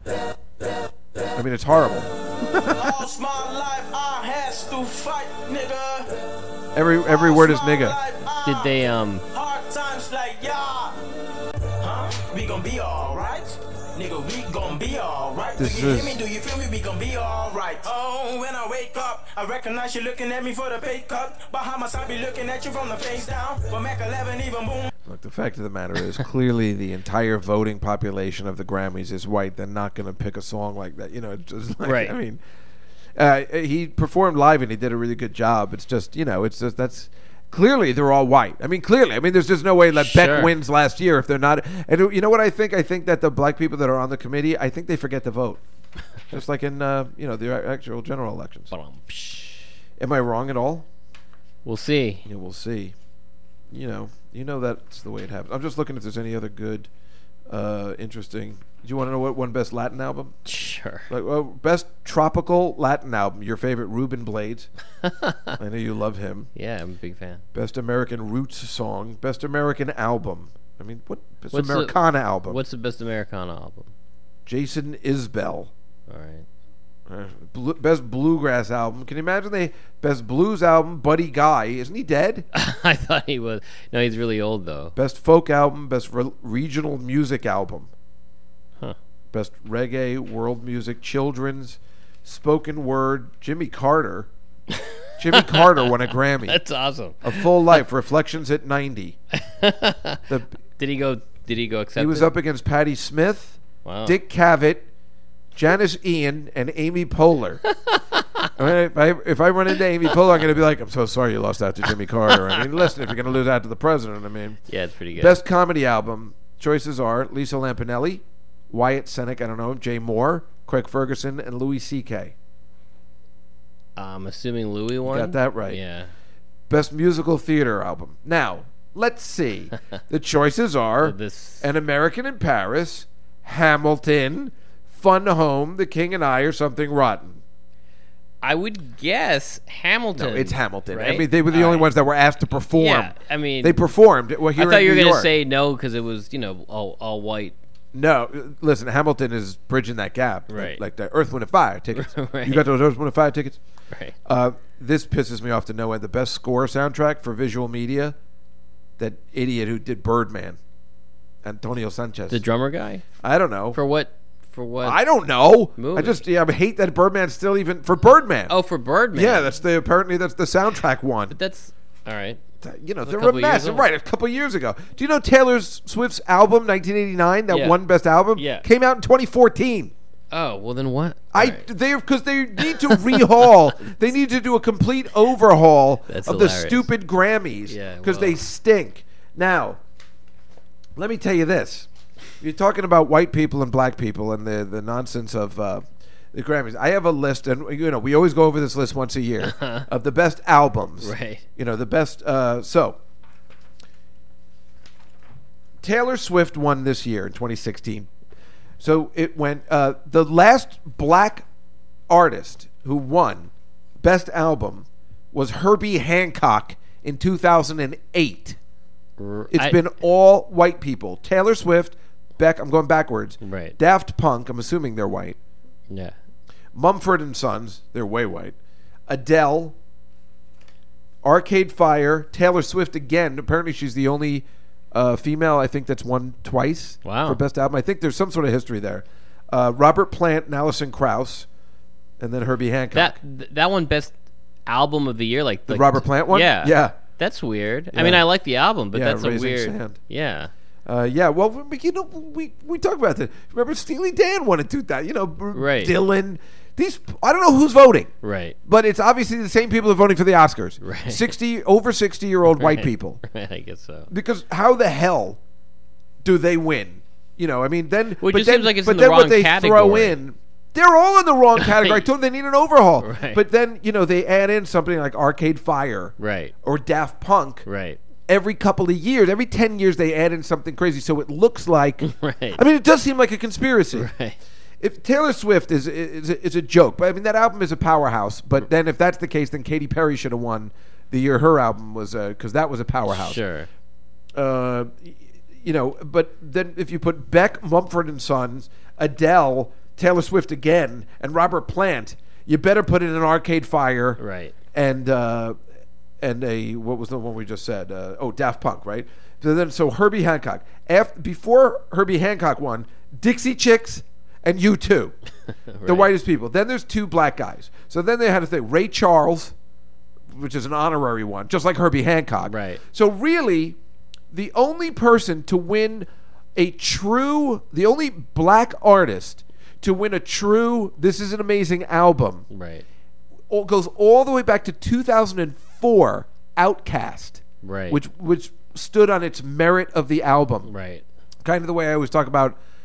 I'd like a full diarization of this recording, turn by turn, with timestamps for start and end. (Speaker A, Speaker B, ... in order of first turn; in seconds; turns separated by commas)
Speaker A: 1.4-3.0, Speaker B: 2.7-6.1, Speaker A: 6.8-8.0, Speaker B: 7.0-8.7, Speaker C: 8.4-9.2, Speaker B: 9.3-11.0, Speaker B: 11.8-24.9, Speaker A: 15.6-16.2, Speaker A: 25.0-32.4, Speaker C: 31.8-32.2, Speaker A: 33.2-45.6, Speaker C: 39.9-40.5, Speaker A: 46.3-48.7, Speaker C: 48.7-49.7, Speaker A: 50.0-50.9, Speaker C: 51.6-52.2, Speaker A: 52.2-53.0, Speaker A: 53.7-56.9, Speaker A: 57.5-60.4, Speaker C: 60.5-61.1, Speaker A: 61.1-64.7, Speaker C: 65.0-65.5, Speaker A: 65.6-66.5, Speaker C: 66.5-67.4, Speaker A: 67.5-72.6, Speaker C: 71.5-73.9, Speaker A: 74.5-75.7, Speaker C: 76.1-76.5, Speaker A: 77.1-82.5, Speaker C: 82.5-85.0, Speaker A: 85.0-87.9, Speaker A: 89.3-94.3, Speaker C: 94.7-95.9, Speaker A: 95.2-96.6, Speaker C: 96.5-97.5, Speaker A: 97.2-99.2, Speaker C: 99.3-100.2, Speaker A: 100.3-100.5, Speaker C: 100.8-102.3, Speaker A: 102.0-104.9, Speaker C: 103.8-104.2, Speaker A: 105.5-107.6, Speaker C: 107.9-108.5, Speaker A: 108.6-114.6, Speaker C: 114.7-115.4, Speaker A: 115.2-122.3, Speaker C: 124.0-126.1, Speaker A: 125.0-125.8, Speaker A: 126.7-137.4, Speaker C: 131.0-131.7, Speaker C: 138.4-141.9, Speaker A: 140.2-145.3, Speaker C: 142.6-143.8, Speaker C: 144.6-147.6, Speaker A: 147.9-153.6, Speaker C: 150.5-150.8, Speaker C: 151.9-152.7, Speaker A: 154.2-158.2, Speaker A: 159.0-160.6, Speaker A: 161.4-162.4, Speaker C: 162.3-163.1, Speaker A: 163.2-163.8, Speaker C: 163.7-165.0, Speaker A: 164.8-168.6, Speaker C: 165.8-166.2, Speaker C: 168.5-169.6, Speaker A: 169.1-171.3, Speaker C: 171.3-172.4, Speaker A: 172.6-179.9, Speaker C: 173.0-173.9, Speaker C: 177.5-177.8, Speaker C: 178.3-178.7, Speaker C: 180.3-181.7, Speaker A: 181.3-189.8, Speaker C: 182.7-183.4, Speaker C: 186.1-186.9, Speaker C: 187.7-188.4, Speaker A: 191.0-191.9, Speaker A: 192.4-203.0, Speaker C: 199.4-199.9, Speaker C: 201.0-201.4, Speaker A: 205.8-208.1, Speaker A: 208.8-211.5, Speaker A: 212.1-218.6, Speaker C: 219.2-219.8, Speaker A: 219.5-225.4, Speaker C: 223.4-223.8, Speaker C: 225.9-226.2, Speaker A: 226.7-228.6, Speaker A: 229.1-229.8, Speaker A: 231.2-241.5, Speaker C: 237.1-237.4, Speaker A: 242.2-243.2, Speaker C: 242.9-244.2, Speaker C: 244.7-250.5, Speaker A: 245.7-247.0, Speaker A: 247.9-248.2, Speaker A: 248.9-250.0, Speaker A: 250.9-258.1, Speaker C: 255.5-256.0, Speaker C: 258.2-258.6, Speaker A: 258.6-263.2, Speaker C: 260.8-261.3, Speaker C: 262.5-264.1, Speaker A: 264.1-265.4, Speaker A: 266.2-277.7, Speaker C: 268.2-270.2, Speaker C: 271.6-272.0, Speaker C: 273.0-273.4, Speaker C: 276.2-276.5, Speaker C: 277.7-278.0, Speaker A: 278.3-284.1, Speaker C: 282.0-282.6, Speaker C: 283.9-284.4, Speaker A: 284.8-293.4, Speaker C: 293.1-293.7, Speaker A: 294.3-304.2, Speaker C: 304.2-304.6, Speaker A: 304.7-305.6, Speaker A: 306.2-315.1, Speaker C: 315.7-316.1, Speaker A: 315.9-319.5, Speaker A: 320.3-323.8, Speaker C: 322.5-322.8, Speaker A: 324.3-332.5, Speaker C: 332.5-332.9, Speaker A: 333.5-340.7, Speaker C: 337.6-338.0, Speaker C: 340.6-341.0, Speaker A: 341.4-342.6